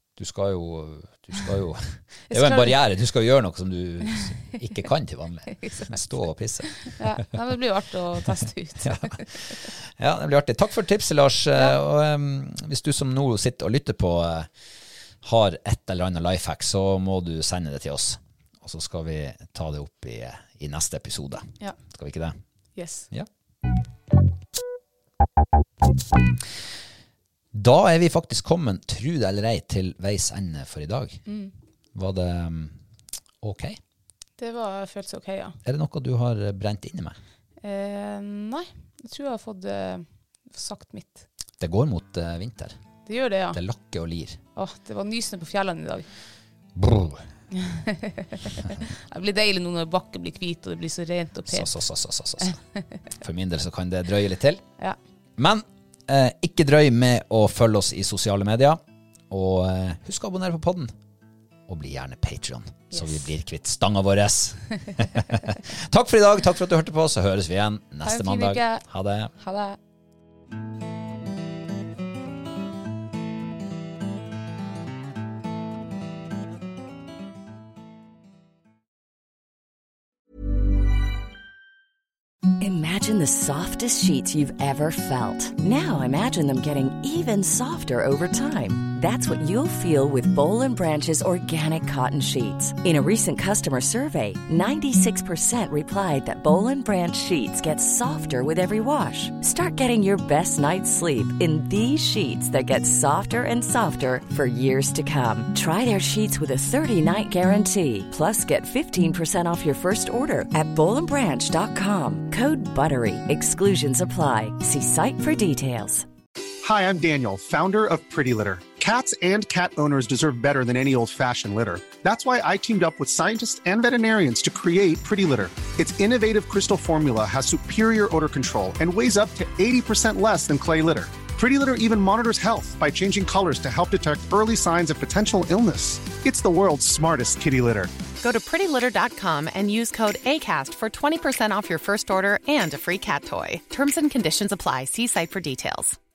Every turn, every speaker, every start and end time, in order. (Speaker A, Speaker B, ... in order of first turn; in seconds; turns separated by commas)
Speaker A: 0.2-7.0, Speaker B: 2.3-2.8, Speaker B: 5.5-6.2, Speaker B: 6.7-9.5, Speaker A: 8.8-14.5, Speaker A: 15.2-22.4, Speaker B: 22.8-23.1, Speaker A: 27.5-31.2, Speaker A: 31.9-32.8, Speaker A: 33.4-33.8, Speaker B: 34.4-35.6, Speaker A: 35.6-37.2, Speaker B: 37.6-41.3, Speaker A: 41.6-42.8, Speaker B: 43.1-43.6, Speaker A: 43.5-44.4, Speaker B: 44.6-46.1, Speaker A: 46.8-47.3, Speaker B: 47.5-51.7, Speaker A: 51.5-52.6, Speaker A: 53.2-54.6, Speaker A: 55.4-60.9, Speaker A: 61.7-69.3, Speaker B: 62.9-63.3, Speaker B: 68.0-68.8, Speaker B: 69.4-69.8, Speaker C: 82.6-116.1, Speaker D: 116.6-137.9, Speaker E: 138.2-146.0